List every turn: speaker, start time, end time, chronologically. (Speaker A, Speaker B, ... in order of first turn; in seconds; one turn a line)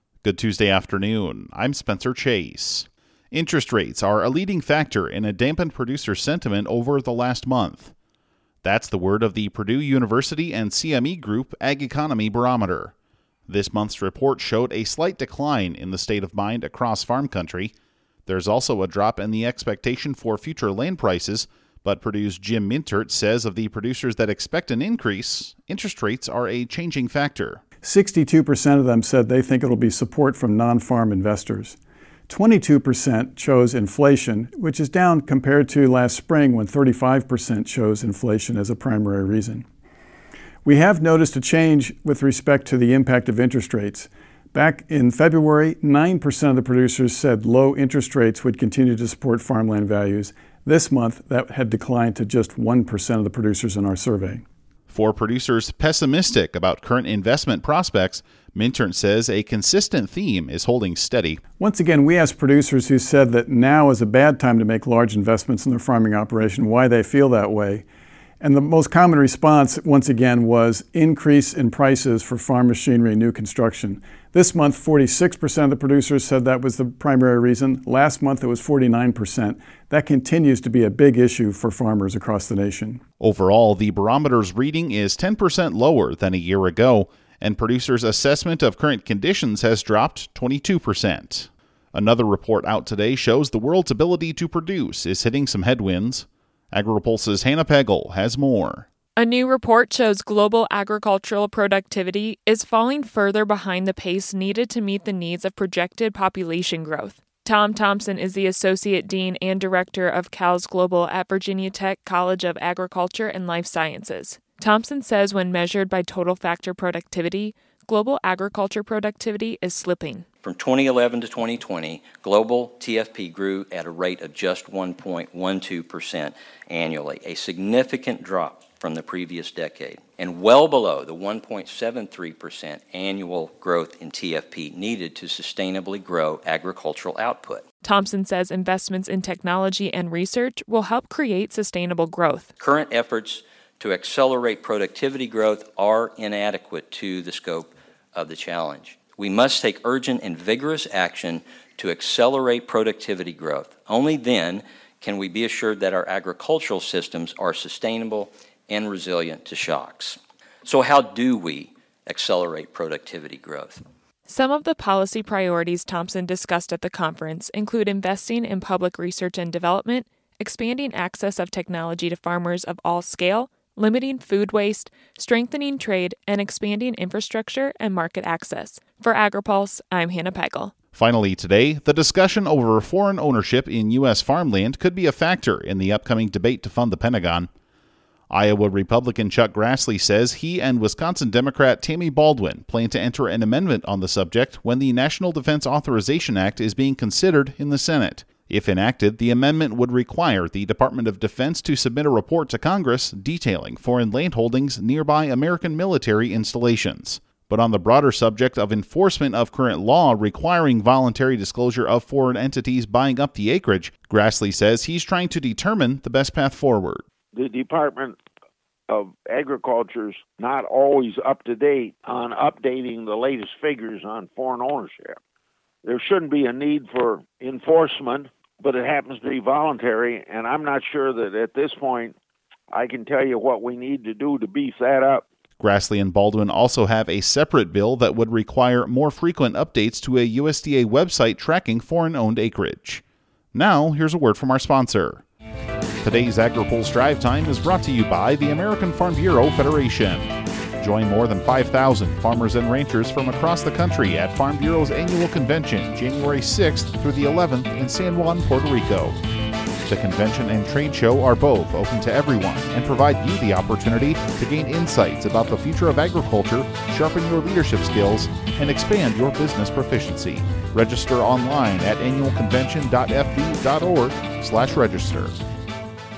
Speaker A: 0.2-7.9
Speaker A: 8.6-12.9
Speaker A: 13.5-17.7
Speaker A: 18.2-27.6
Speaker B: 27.8-31.8
Speaker B: 32.3-39.6
Speaker B: 40.6-54.4
Speaker A: 54.9-61.4
Speaker B: 61.6-67.8
Speaker B: 68.4-83.0
Speaker A: 83.2-98.9
Speaker C: 99.4-120.2
Speaker D: 120.4-137.6
Speaker C: 137.9-142.5
Speaker D: 142.6-163.8
Speaker C: 164.3-180.7
Speaker A: 180.9-187.5
Speaker A: 188.3-217.0
Speaker E: 217.3-218.2
Speaker E: 218.9-225.2
Speaker E: 225.8-232.1
Speaker E: 232.7-235.2
Speaker A: 235.6-243.0
Speaker A: 243.5-245.2
Speaker A: 246.0-259.2
Speaker A: 259.9-275.4